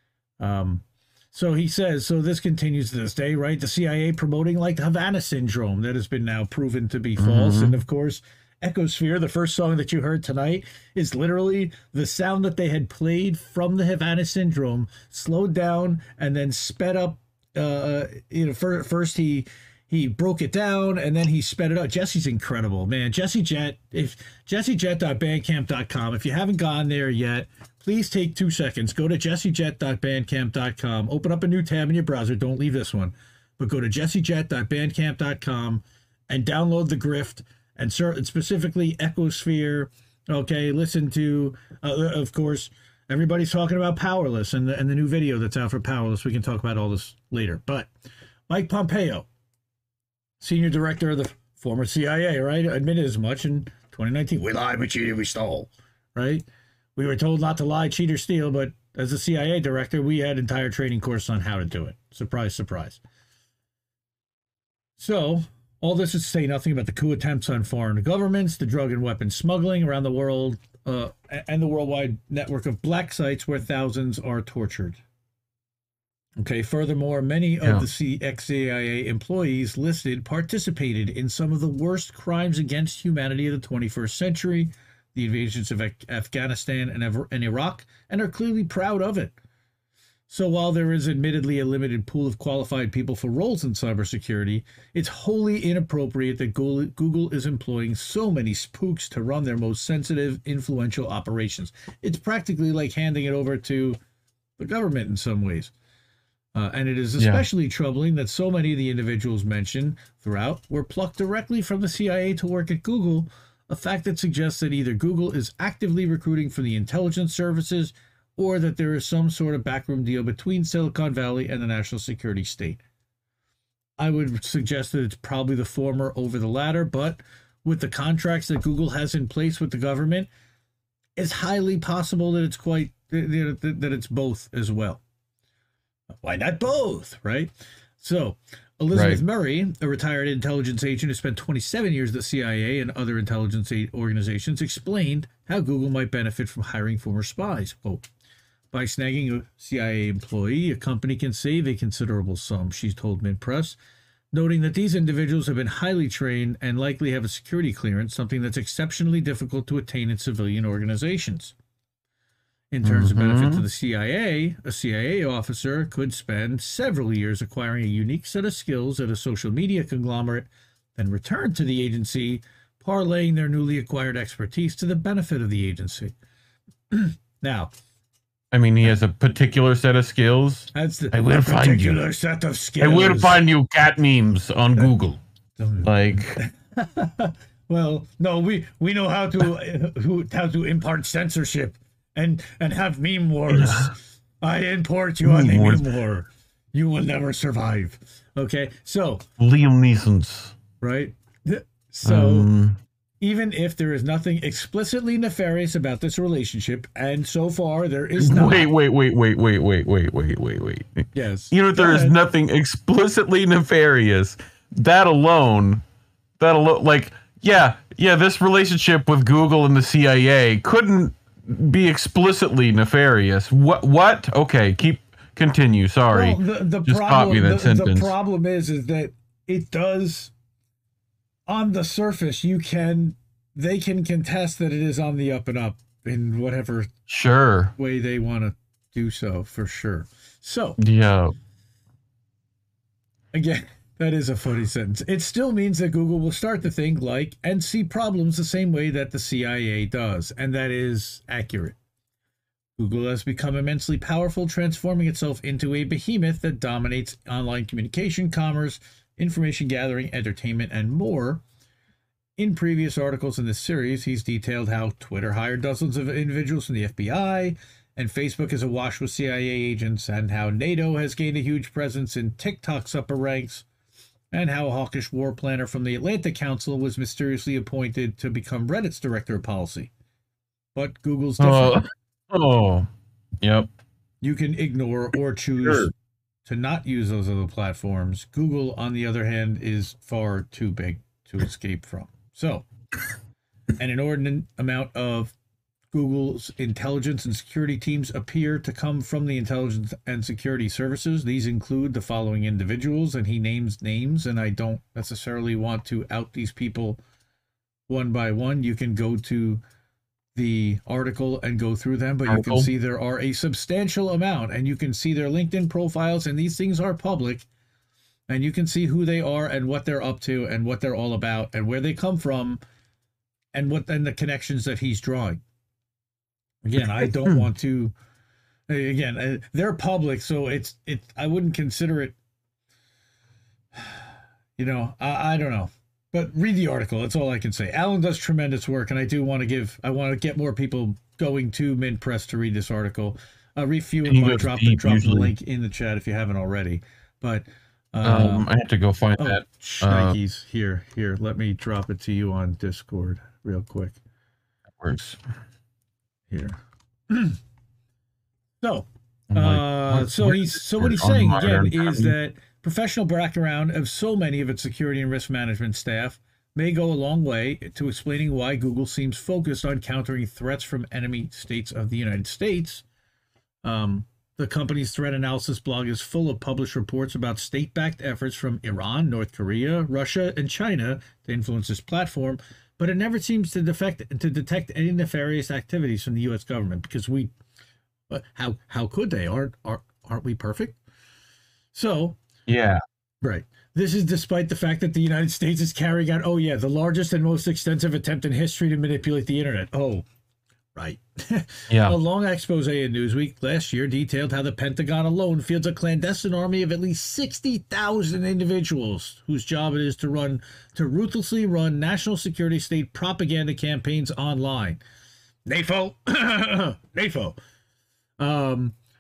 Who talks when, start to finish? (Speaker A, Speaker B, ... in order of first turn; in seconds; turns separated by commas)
Speaker A: 0.4-47.9, Speaker B: 7.2-7.8, Speaker A: 48.5-49.3, Speaker A: 50.4-56.5, Speaker A: 57.0-63.0, Speaker A: 65.0-75.0, Speaker A: 76.4-89.3, Speaker B: 77.6-77.9, Speaker A: 90.3-104.0, Speaker A: 104.6-105.7, Speaker A: 106.5-122.8, Speaker B: 107.2-107.5, Speaker A: 124.0-130.3, Speaker A: 131.2-135.0, Speaker A: 136.2-148.0, Speaker B: 138.9-139.2, Speaker A: 148.7-153.8, Speaker A: 154.3-161.5, Speaker A: 162.7-176.1, Speaker B: 162.8-163.7, Speaker A: 176.9-177.7, Speaker B: 178.5-182.0, Speaker A: 180.7-183.4, Speaker B: 182.8-185.2, Speaker A: 185.6-199.2, Speaker B: 185.8-186.4, Speaker B: 193.5-193.9, Speaker B: 195.2-195.9, Speaker B: 199.4-200.6, Speaker A: 200.8-202.5, Speaker B: 202.1-202.8, Speaker A: 203.2-208.7, Speaker B: 208.2-215.8, Speaker A: 211.1-212.2, Speaker B: 216.4-228.1, Speaker A: 226.1-230.3, Speaker A: 231.5-236.9, Speaker B: 237.1-237.7, Speaker A: 237.8-240.8, Speaker B: 240.8-241.3, Speaker A: 243.3-251.8, Speaker A: 252.8-261.4, Speaker A: 262.4-273.6, Speaker A: 274.3-279.9, Speaker A: 280.8-281.8, Speaker B: 281.4-282.9, Speaker B: 283.4-283.7, Speaker A: 284.2-285.9, Speaker B: 285.6-285.9, Speaker A: 286.5-292.7, Speaker A: 293.8-295.3, Speaker A: 295.9-307.0, Speaker A: 307.9-309.6, Speaker A: 310.4-317.5, Speaker B: 312.3-312.7, Speaker A: 318.3-322.6, Speaker A: 323.5-325.4, Speaker A: 326.6-327.9, Speaker B: 326.8-327.5, Speaker A: 328.7-332.2, Speaker A: 333.8-334.0, Speaker A: 334.6-348.5, Speaker B: 344.1-345.3, Speaker B: 348.0-350.2, Speaker A: 349.2-354.0, Speaker B: 354.8-355.2, Speaker A: 356.3-356.6, Speaker A: 357.1-357.4, Speaker A: 358.6-372.8, Speaker B: 359.3-362.1, Speaker A: 373.6-387.3, Speaker A: 388.1-390.8, Speaker A: 391.7-392.2, Speaker B: 392.5-392.8, Speaker A: 393.2-400.1, Speaker A: 400.8-414.8, Speaker B: 401.7-402.0, Speaker A: 415.5-417.4, Speaker A: 418.2-418.8